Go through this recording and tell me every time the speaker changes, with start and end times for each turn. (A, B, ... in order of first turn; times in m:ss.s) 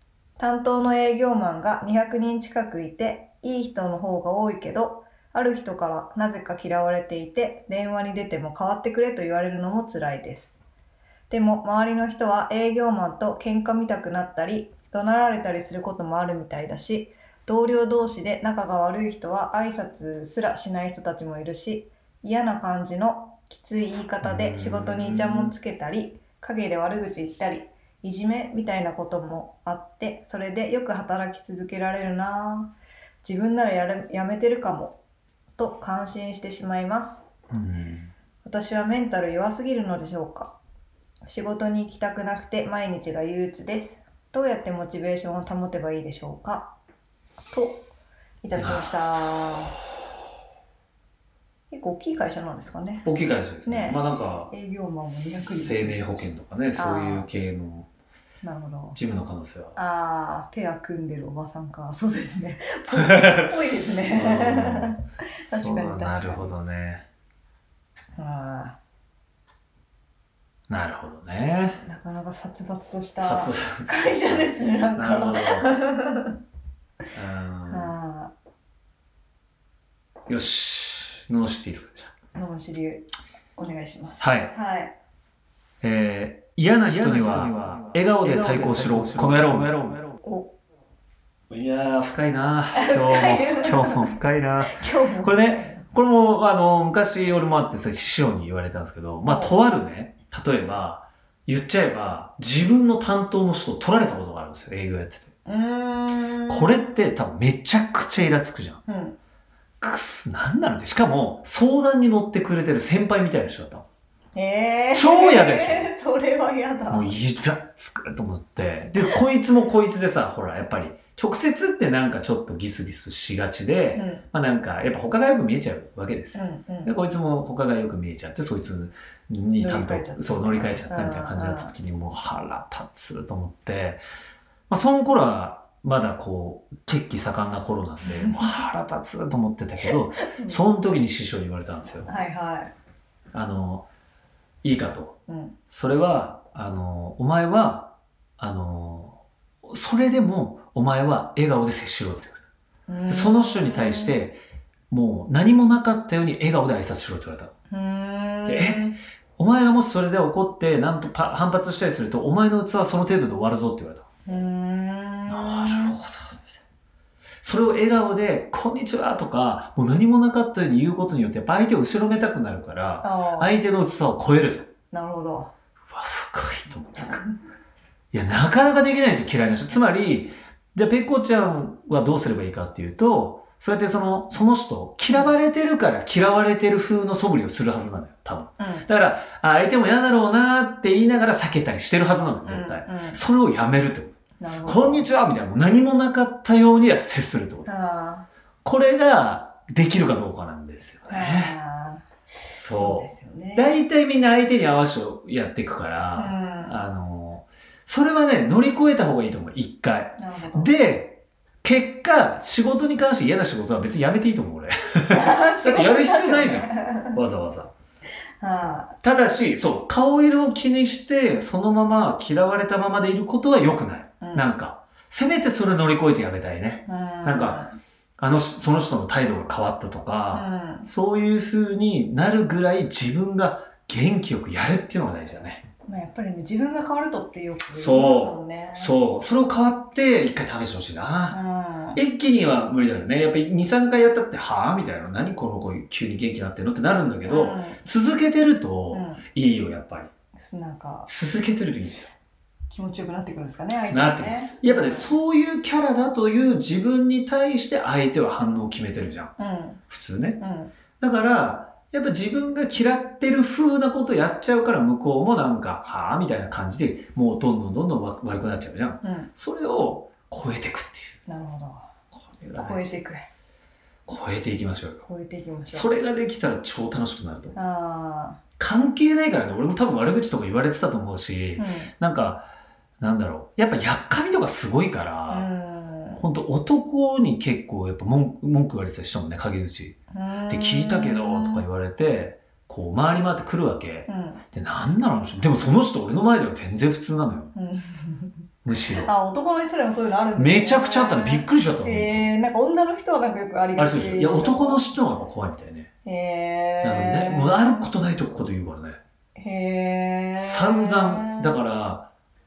0:00.4-0:10.6 A
0:11.3-0:35.0 A
0:24.2-0:25.5 B
0:35.6-0:37.2 A
0:37.5-0:38.1 B
0:38.4-0:40.5 A
0:41.2-0:46.8 A
0:47.5-0:47.9 A
0:48.4-0:49.7 A
0:48.6-0:48.9 B
0:51.7-0:53.1 A
0:53.0-0:54.5 B
0:53.6-0:57.3 A
0:55.2-0:57.9 B
0:58.4-0:59.0 A
0:58.9-0:59.8 B
0:59.8-1:06.5 A
1:03.0-1:03.5 B
1:04.1-1:07.0 B
1:08.2-1:08.8 A
1:10.7-1:11.8 B
1:11.8-1:16.3 A
1:13.2-1:15.8 B
1:17.1-1:17.9 B
1:17.7-1:18.3 A
1:20.3-1:22.1 B
1:22.3-1:25.0 A
1:24.2-1:24.5 B
1:25.8-1:30.0 B
1:30.2-1:30.5 A
1:31.5-1:45.3 B
1:32.7-1:34.1 A
1:34.6-1:35.8 A
1:39.2-1:39.6 A
1:45.4-1:46.8 A
1:46.5-1:48.8 B
1:48.9-1:49.2 A
1:49.8-1:53.8 B
1:54.3-1:57.1 A
1:54.9-1:55.9 B
1:56.9-2:14.0 B
2:03.9-2:04.2 A
2:06.3-2:06.9 A
2:09.6-2:11.7 A
2:14.7-2:22.1 B
2:18.0-2:18.6 A
2:20.2-2:20.6 A
2:22.0-2:22.7 A
2:23.3-2:23.8 B
2:24.6-2:25.2 B
2:25.3-2:25.6 A
2:25.7-2:32.4 B
2:32.9-2:34.2 A
2:33.1-2:37.5 B
2:37.7-2:39.0 A
2:38.4-2:44.1 B
2:44.2-2:45.9 A
2:45.3-2:46.4 B
2:47.4-2:54.7 B
2:53.0-2:53.6 A
2:54.9-2:55.5 A
2:55.9-2:57.2 B
2:58.1-3:17.7 B
3:05.1-3:05.4 A
3:08.6-3:08.8 A
3:12.4-3:13.2 A
3:14.4-3:15.0 A
3:17.6-3:18.3 A
3:18.6-3:21.6 B
3:21.1-3:23.7 A
3:22.5-3:37.7 B
3:26.1-3:26.8 A
3:30.2-3:30.7 A
3:35.1-3:37.1 A
3:38.4-3:39.0 A
3:39.0-3:47.6 B
3:44.2-3:44.5 A
3:46.9-3:47.7 A
3:48.2-3:55.6 B
3:50.3-3:50.9 A
3:55.8-3:58.9 A
3:57.7-4:01.4 B
4:01.3-4:02.0 A
4:01.9-4:10.1 B
4:07.2-4:07.8 A
4:08.9-4:09.2 A
4:10.4-4:11.1 A
4:11.1-4:12.1 B
4:12.7-4:15.1 A
4:13.9-4:19.3 B
4:19.4-4:19.8 A
4:19.9-4:20.4 B
4:20.4-4:20.7 A
4:21.0-4:31.2 B
4:29.0-4:29.3 A
4:31.3-4:31.9 A
4:32.1-4:33.0 B
4:32.6-4:33.2 A
4:34.1-4:35.0 B
4:35.0-4:35.9 A
4:35.7-4:37.6 B
4:37.5-4:38.4 A
4:38.6-4:42.5 B
4:41.6-4:41.9 A
4:43.0-4:45.5 B
4:45.3-4:46.2 A
4:46.1-4:50.0 B
4:50.1-4:51.6 A
4:50.5-4:57.5 B
4:54.1-4:54.4 A
4:57.5-4:58.3 A
4:58.6-4:59.1 B
4:59.0-5:04.8 A
5:00.4-5:02.3 B
5:03.8-5:05.9 B
5:06.0-5:07.9 A
5:06.8-5:09.0 B
5:09.4-5:11.5 A
5:10.4-5:12.1 B